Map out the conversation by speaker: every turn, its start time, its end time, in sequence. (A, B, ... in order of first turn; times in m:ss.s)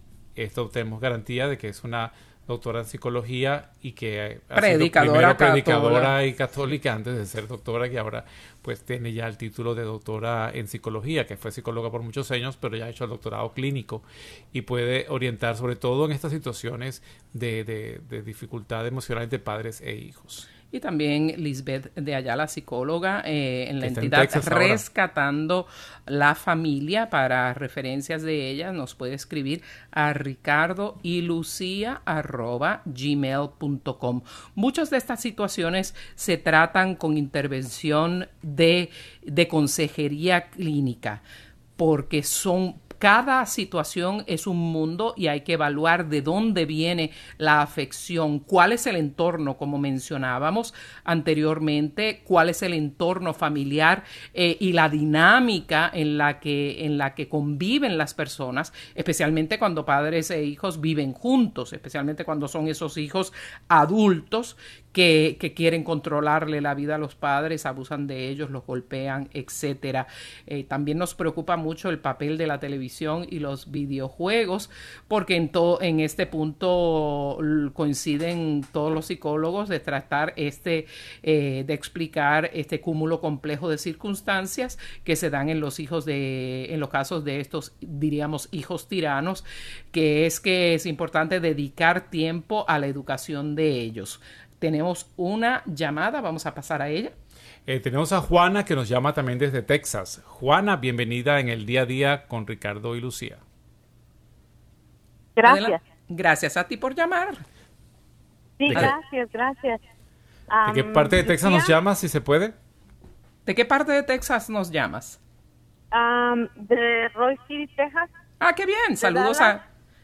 0:00.4-0:20.5 A
0:04.6-0:06.1 B
0:20.7-0:41.2 B
0:23.8-0:24.8 A
0:41.8-1:37.1 B
1:37.7-1:43.4 A
1:45.4-1:45.8 C
1:45.4-1:47.4 B
1:48.6-1:49.8 C
1:48.7-1:49.0 B
1:50.5-1:51.8 C
1:50.6-1:52.6 A
1:53.5-1:55.2 B
1:55.9-1:58.1 C
1:58.4-1:59.6 B
1:59.0-1:59.6 C